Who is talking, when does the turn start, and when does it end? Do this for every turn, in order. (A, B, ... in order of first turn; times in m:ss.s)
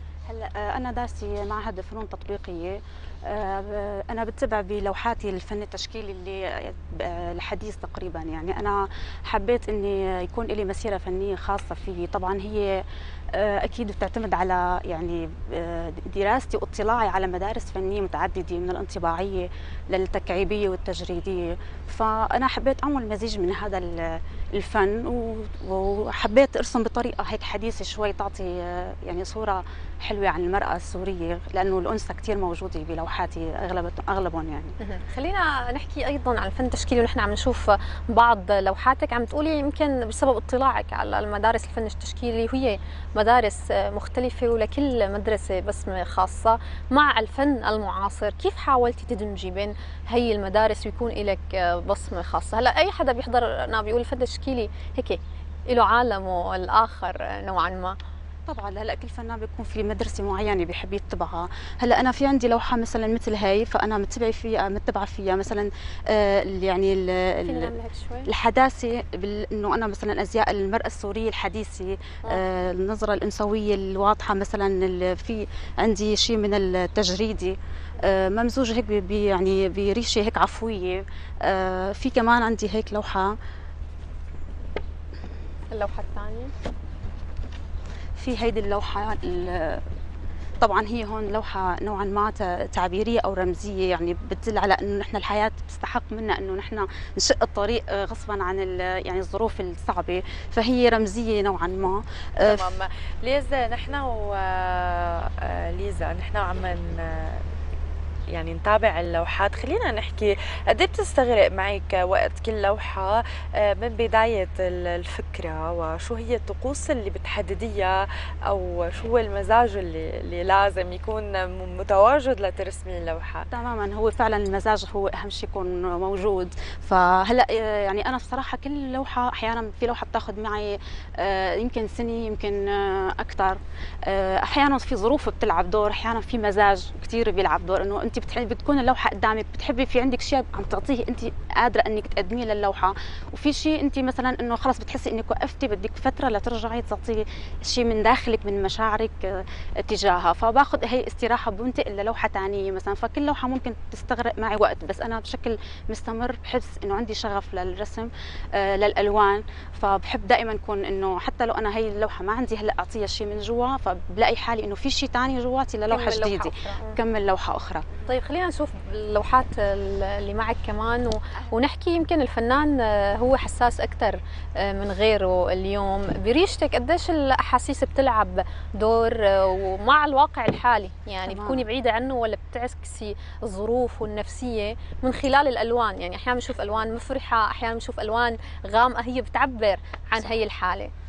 0:00.3-0:34.7 A
0:34.8-0:58.0 B
0:58.5-1:07.7 A
1:07.5-1:08.3 B
1:08.3-1:23.4 A
1:25.7-1:26.5 B
1:28.2-1:29.8 A
1:30.6-1:42.7 A
1:42.4-1:47.4 C
1:48.3-2:03.5 C
2:03.5-2:47.9 A
2:45.9-2:47.0 B
2:48.1-3:10.9 B
3:01.3-3:01.7 A